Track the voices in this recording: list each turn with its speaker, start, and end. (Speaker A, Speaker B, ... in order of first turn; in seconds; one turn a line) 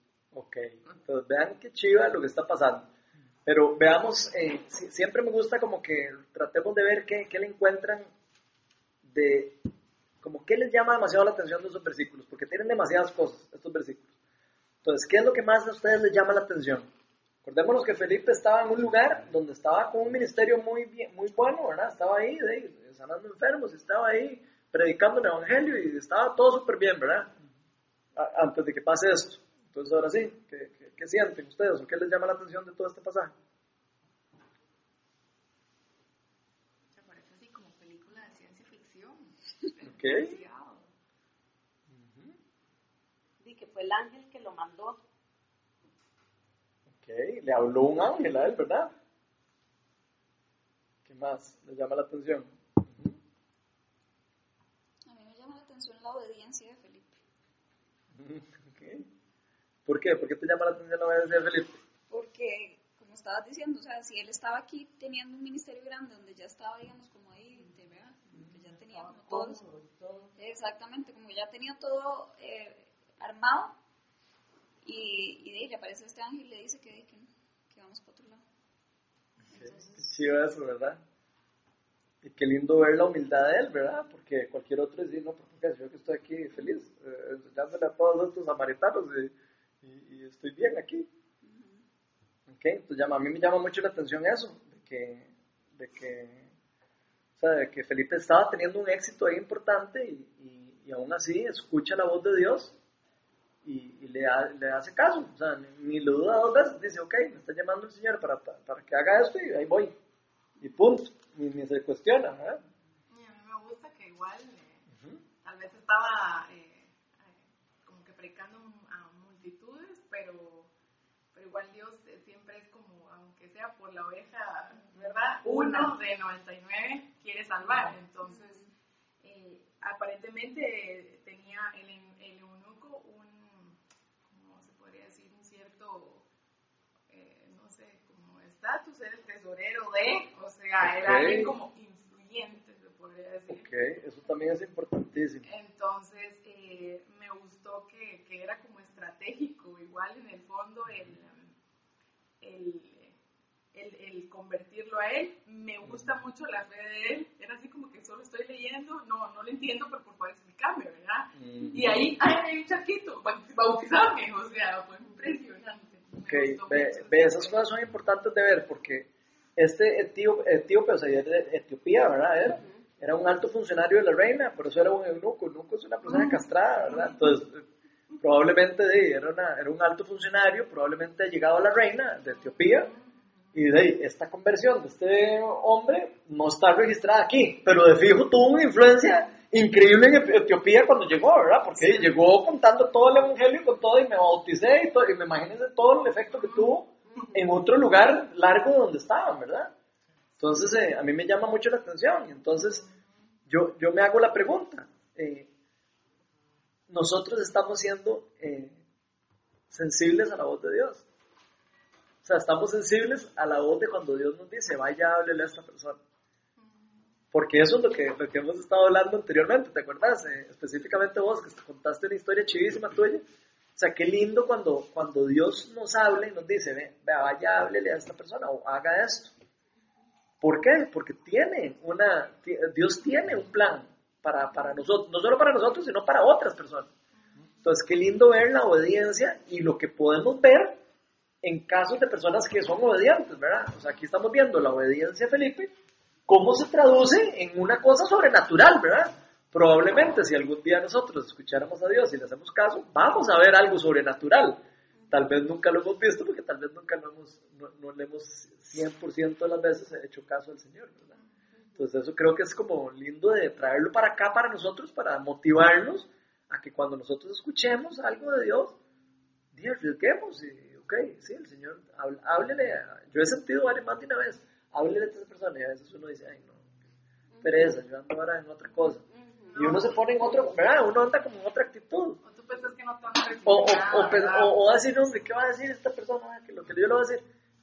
Speaker A: 0.3-2.9
Speaker A: 3.5-8.1
Speaker A: 9.0-9.6
Speaker A: 10.2-14.1
Speaker A: 14.8-16.9
Speaker A: 17.4-27.3
Speaker A: 28.2-33.3
Speaker B: 37.0-40.9
Speaker A: 39.9-40.4
Speaker A: 41.9-42.4
Speaker C: 43.4-45.0
Speaker A: 47.0-48.9
Speaker A: 51.0-53.2
Speaker D: 55.0-57.2
Speaker A: 58.1-59.0
Speaker A: 59.9-61.8
Speaker D: 62.1-69.6
Speaker C: 68.3-70.3
Speaker D: 70.4-73.8
Speaker D: 74.8-78.4
Speaker D: 79.5-80.0
Speaker A: 79.5-81.0
Speaker A: 82.2-91.1
Speaker D: 91.4-91.8
Speaker A: 92.5-96.5
Speaker A: 97.4-102.8
Speaker A: 103.6-109.9
Speaker A: 110.6-112.6
Speaker E: 113.1-114.9
Speaker A: 114.9-115.2
Speaker E: 115.4-120.7
Speaker E: 121.3-128.6
Speaker D: 128.2-128.7
Speaker E: 129.2-136.2
Speaker E: 137.1-143.7
Speaker A: 140.8-141.5
Speaker A: 143.5-145.5
Speaker E: 145.4-151.5
Speaker E: 152.4-153.2
Speaker E: 153.7-167.6
Speaker A: 155.8-156.1
Speaker A: 161.4-162.0
Speaker A: 166.3-177.6
Speaker E: 176.0-177.4
Speaker A: 178.2-182.9
Speaker E: 182.2-183.5
Speaker A: 183.5-199.7
Speaker E: 191.8-192.1
Speaker E: 196.3-196.8
Speaker A: 200.4-202.8
Speaker E: 202.6-203.1
Speaker A: 203.5-205.5
Speaker A: 206.9-208.8
Speaker A: 209.7-211.0
Speaker A: 212.2-216.0
Speaker E: 216.6-217.1
Speaker A: 217.3-223.2
Speaker A: 223.8-229.3
Speaker A: 230.4-236.9
Speaker A: 237.4-240.8
Speaker A: 241.4-245.7
Speaker A: 246.3-261.2
Speaker B: 261.5-261.8
Speaker A: 261.8-268.7
Speaker A: 269.5-276.7
Speaker A: 277.4-279.0
Speaker E: 279.5-280.0
Speaker A: 279.6-282.2
Speaker E: 282.2-284.6
Speaker A: 283.4-287.2